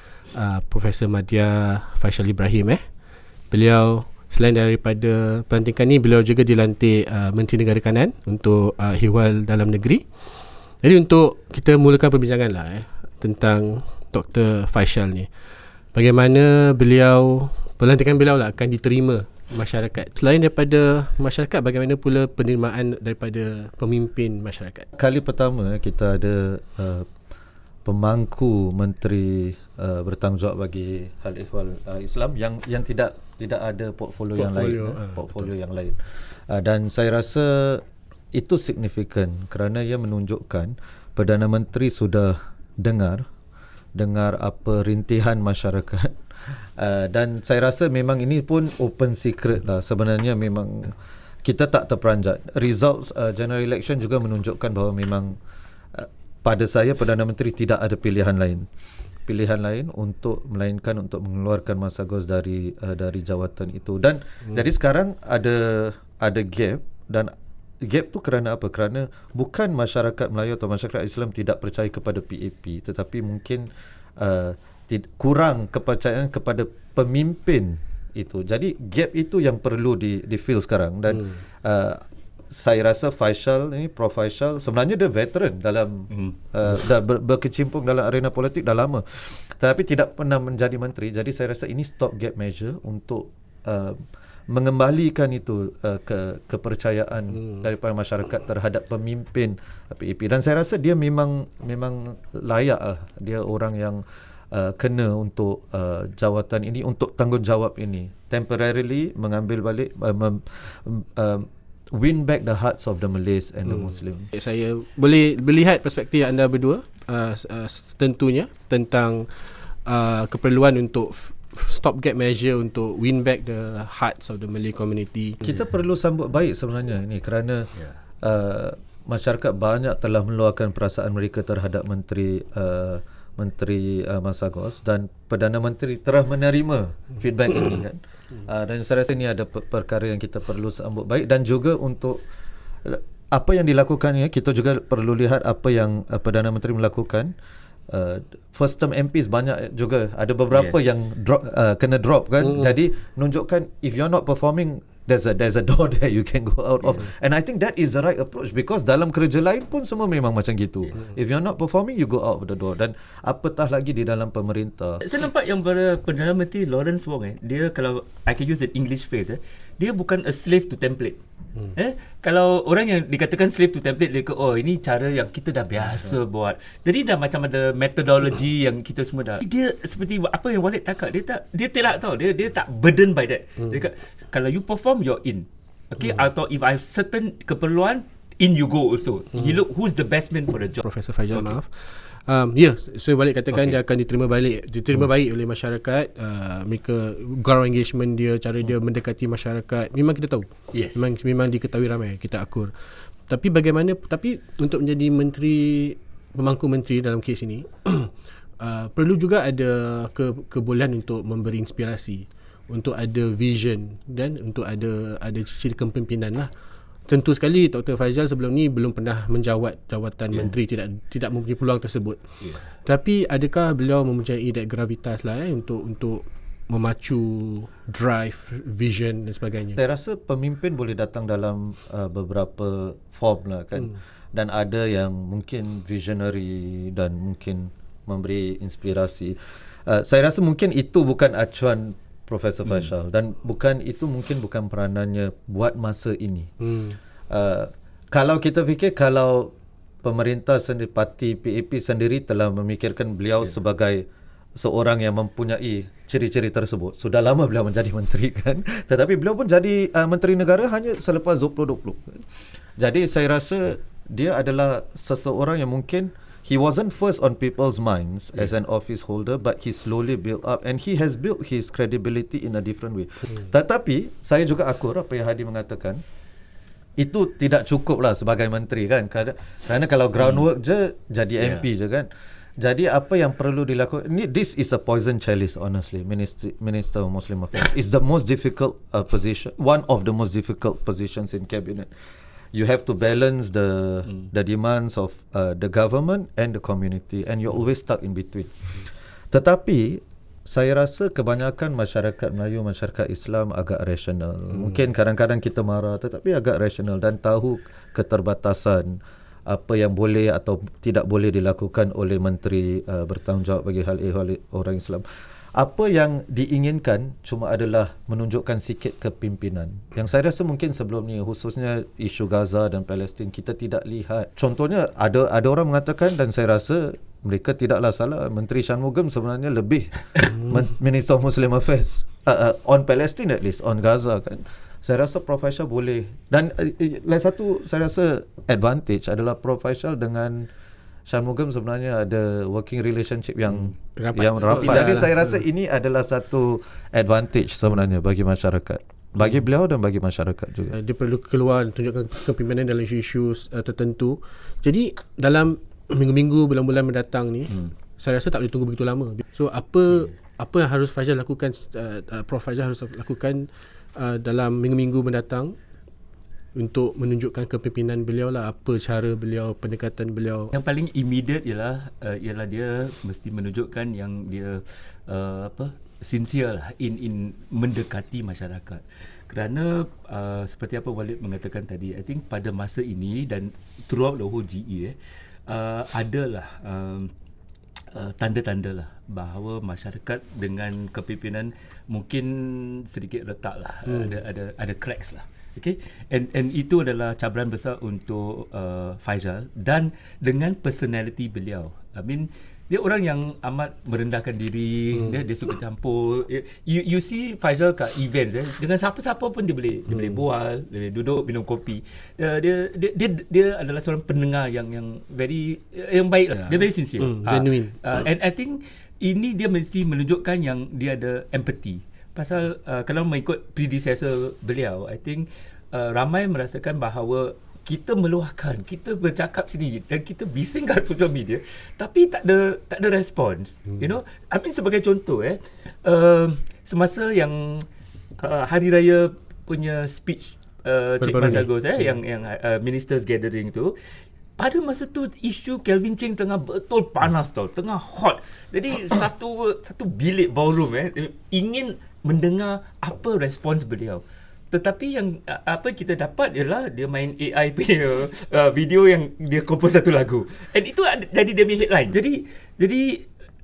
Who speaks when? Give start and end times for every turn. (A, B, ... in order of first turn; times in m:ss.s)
0:00.3-0:02.8 A
0:03.5-0:10.0 A
0:10.8-0:15.3 A
0:15.9-0:24.9 A
0:25.0-0:27.1 B
0:27.8-0:43.2 B
0:34.4-0:35.3 A
0:43.9-0:55.4 B
0:55.9-0:58.7 B
0:59.3-1:54.3 B
1:26.1-1:26.4 C
1:53.7-2:05.4 A
2:05.4-2:07.7 B
2:08.2-2:22.2 B
2:22.8-2:27.3 B
2:27.9-2:45.0 B
2:45.0-2:51.2 C
2:51.7-3:11.6 C
3:09.3-3:09.6 A
3:10.8-3:22.7 A
3:20.7-3:21.1 C
3:23.3-3:36.5 A
3:37.1-3:42.2 A
3:42.8-3:49.8 A
3:49.8-4:06.5 B
4:06.6-4:07.0 A
4:07.3-4:36.0 B
4:37.0-4:51.9 B
4:52.5-5:15.0 B
5:15.6-5:40.5 B
5:41.1-5:50.8 B
5:44.0-5:45.3 A
5:50.8-6:05.6 A
6:06.6-6:10.5 A
6:10.5-6:27.1 C
6:27.9-7:17.7 C
6:33.9-6:34.2 A
6:49.9-6:50.2 A
6:56.4-6:57.8 A
7:18.2-7:23.8 C
7:21.0-7:21.4 A
7:24.4-7:43.1 C